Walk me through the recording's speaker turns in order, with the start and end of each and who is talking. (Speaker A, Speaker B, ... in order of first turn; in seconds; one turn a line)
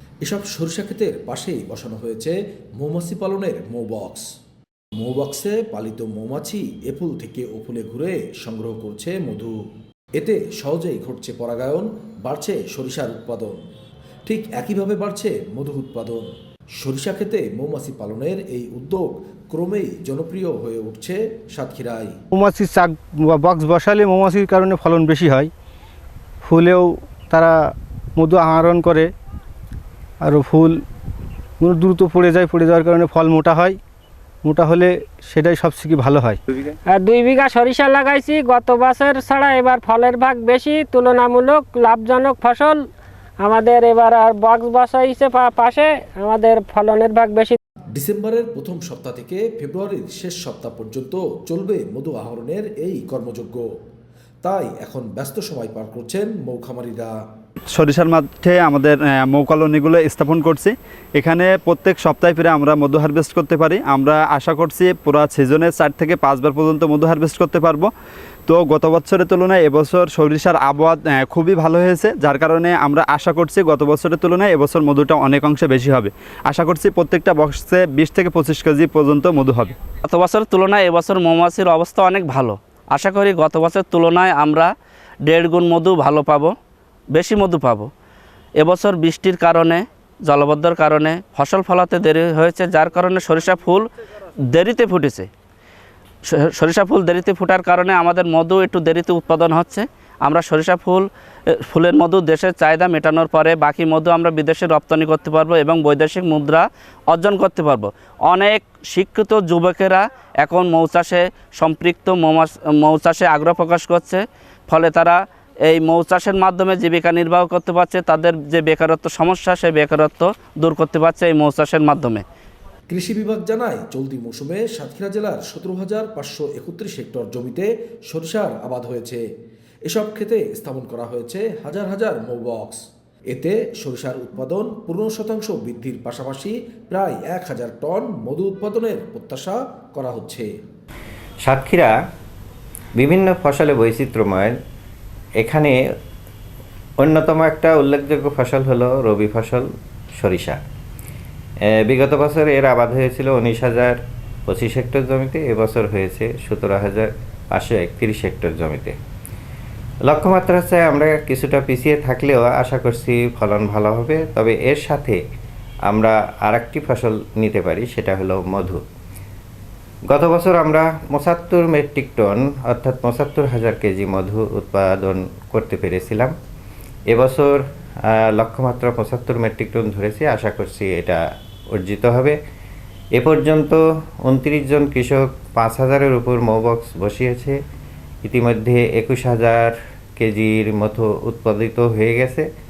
Speaker A: 0.2-4.2
Speaker A: 5.0-9.5
Speaker A: 10.2-13.6
Speaker A: 14.2-16.2
Speaker A: 16.8-22.1
Speaker B: 22.3-25.5
Speaker B: 26.4-27.6
Speaker B: 28.2-29.1
Speaker B: 30.2-30.8
Speaker B: 31.6-33.8
Speaker B: 34.4-36.4
Speaker C: 36.9-42.8
Speaker C: 43.4-47.6
Speaker A: 47.9-53.6
Speaker A: 54.4-57.1
Speaker D: 57.7-67.9
Speaker D: 68.5-79.8
Speaker E: 80.0-84.7
Speaker E: 85.2-86.5
Speaker E: 87.1-87.9
Speaker E: 88.6-93.8
Speaker E: 94.5-95.3
Speaker E: 96.3-101.0
Speaker E: 101.7-122.2
Speaker A: 122.9-129.2
Speaker A: 129.8-132.8
Speaker A: 133.3-140.5
Speaker F: 141.4-141.9
Speaker F: 142.9-144.6
Speaker F: 145.4-145.8
Speaker F: 147.0-150.6
Speaker F: 151.6-158.9
Speaker F: 160.0-165.2
Speaker F: 165.9-168.8
Speaker F: 170.1-176.3
Speaker F: 177.1-182.4
Speaker F: 183.1-187.6
Speaker F: 188.2-192.5